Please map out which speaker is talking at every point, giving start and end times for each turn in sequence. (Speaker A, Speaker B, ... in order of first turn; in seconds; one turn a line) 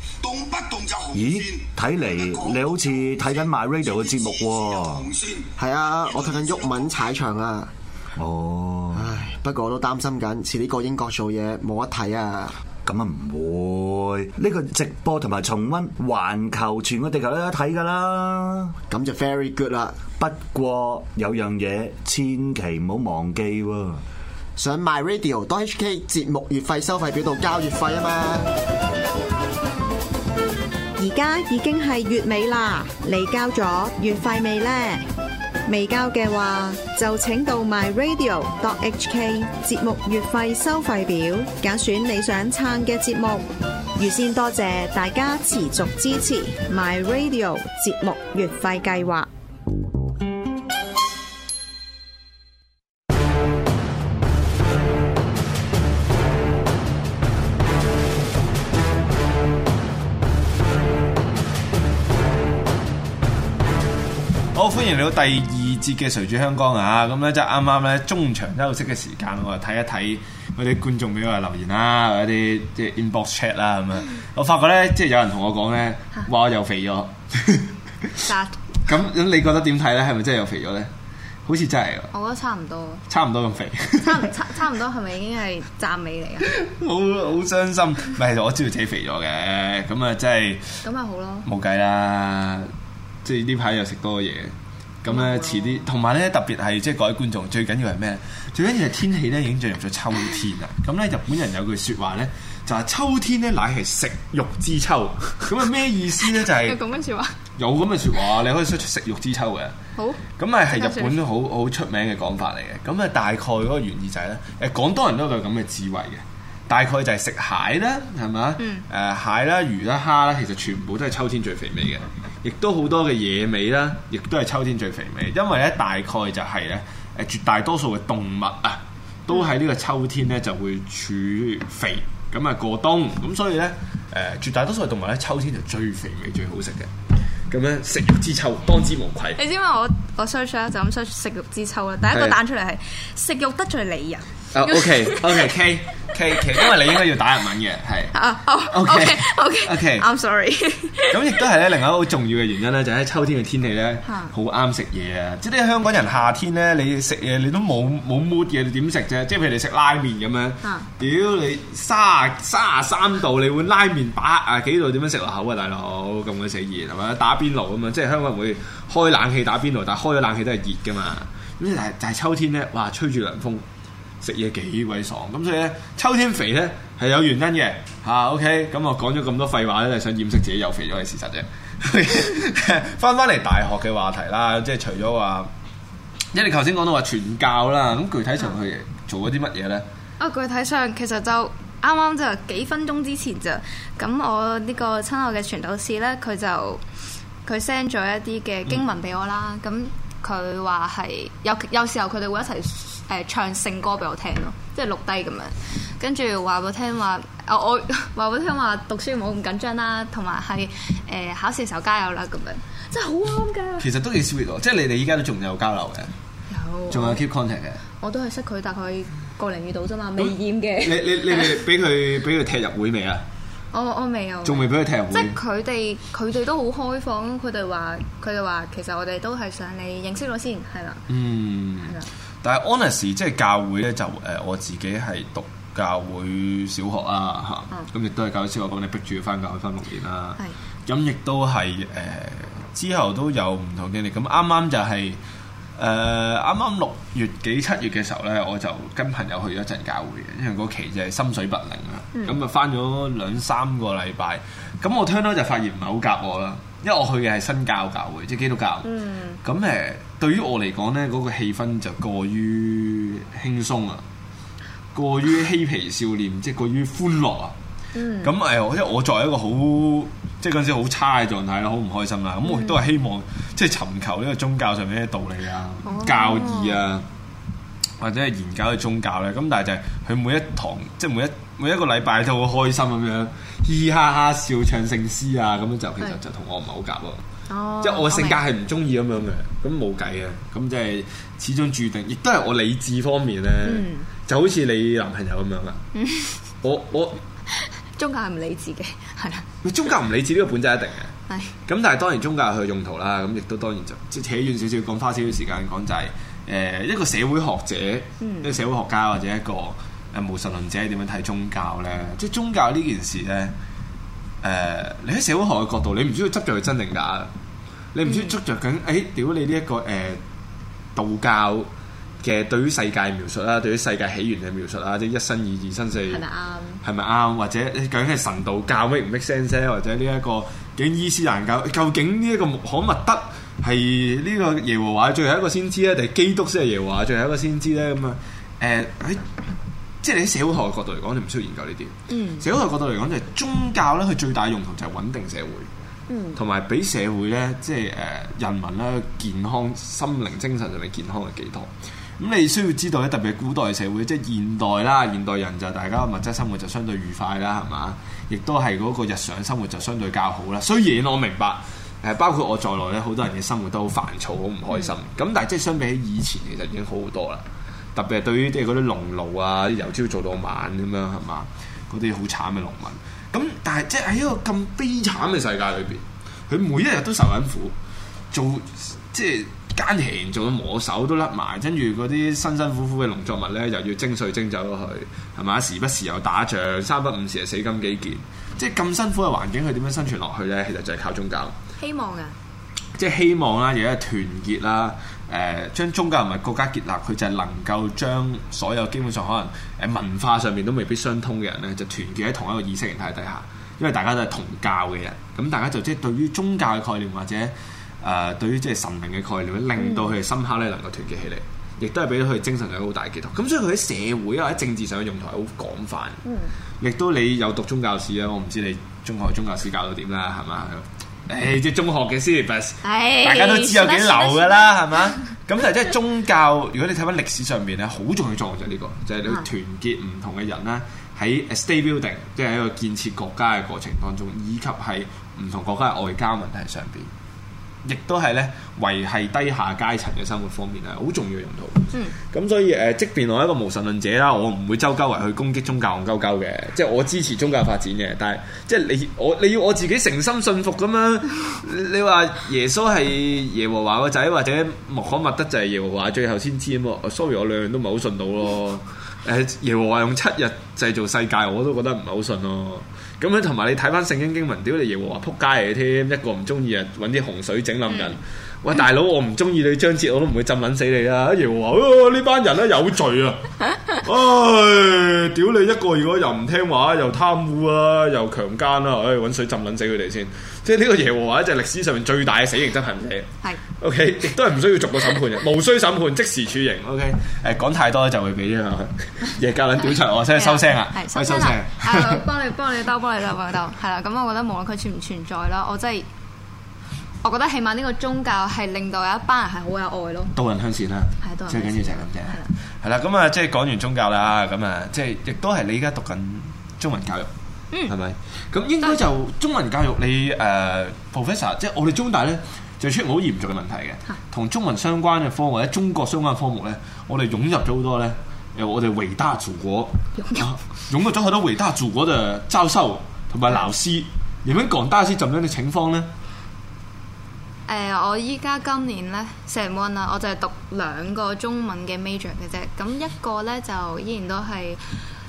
Speaker A: 0.2-3.2
Speaker B: 1.1-5.1
Speaker A: 3.8-5.5
Speaker C: 5.6-7.7
Speaker A: 6.1-6.8
Speaker B: 8.2-9.1
Speaker C: 8.9-12.6
Speaker B: 12.9-18.8
Speaker C: 18.9-20.0
Speaker B: 20.2-24.0
Speaker C: 24.6-28.6
Speaker D: 31.0-35.1
Speaker D: 35.7-49.3
Speaker E: 64.5-78.2
Speaker F: 78.2-78.6
Speaker E: 78.9-80.9
Speaker E: 81.5-82.1
Speaker F: 82.1-83.0
Speaker E: 83.1-84.3
Speaker F: 84.0-86.5
Speaker E: 86.5-90.8
Speaker F: 90.8-91.5
Speaker E: 91.5-92.7
Speaker E: 93.2-106.8
Speaker F: 95.1-95.8
Speaker F: 106.2-107.4
Speaker E: 107.6-109.8
Speaker F: 110.0-111.2
Speaker E: 110.4-136.9
Speaker F: 118.6-118.8
Speaker E: 137.5-139.4
Speaker F: 139.4-145.5
Speaker E: 142.1-142.4
Speaker E: 144.5-148.2
Speaker F: 148.1-151.4
Speaker E: 148.7-150.1
Speaker E: 151.1-173.6
Speaker F: 154.1-154.3
Speaker F: 160.6-160.9
Speaker E: 174.2-185.5
Speaker E: 186.3-189.8
Speaker F: 190.2-196.8
Speaker F: 197.4-213.9
Speaker E: 213.8-216.1
Speaker F: 216.5-217.2
Speaker E: 216.9-217.8
Speaker F: 218.0-221.6
Speaker E: 220.2-223.2
Speaker F: 223.7-231.1
Speaker E: 224.4-225.4
Speaker E: 231.1-245.2
Speaker E: 245.8-258.9
Speaker F: 258.9-259.4
Speaker E: 259.4-264.1
Speaker E: 264.9-267.6
Speaker F: 267.9-268.3
Speaker E: 268.2-277.1
Speaker F: 272.4-272.8
Speaker F: 275.9-276.8
Speaker E: 278.0-287.2
Speaker F: 287.5-288.4
Speaker E: 287.8-295.9
Speaker F: 293.6-294.1
Speaker F: 295.9-296.3
Speaker E: 296.6-297.2
Speaker F: 297.5-299.5
Speaker E: 299.6-301.1
Speaker F: 301.3-301.5
Speaker E: 301.7-313.6
Speaker F: 308.2-308.6
Speaker E: 314.4-317.3
Speaker E: 317.9-320.2
Speaker F: 318.1-318.4
Speaker E: 320.9-321.7
Speaker E: 322.2-326.2
Speaker F: 326.1-326.8
Speaker E: 326.8-339.2
Speaker E: 340.0-345.7
Speaker F: 342.1-342.4
Speaker F: 346.1-346.4
Speaker E: 346.4-367.4
Speaker E: 368.0-377.8
Speaker E: 378.3-391.6
Speaker F: 391.8-392.4
Speaker E: 393.0-416.2
Speaker F: 409.8-410.1
Speaker F: 416.2-416.5
Speaker E: 416.8-437.1
Speaker F: 422.8-424.8
Speaker E: 437.9-492.3
Speaker F: 490.4-496.1
Speaker F: 497.2-500.3
Speaker E: 500.4-507.3
Speaker F: 501.2-502.5
Speaker E: 507.9-526.1
Speaker F: 520.2-520.5
Speaker F: 527.7-534.8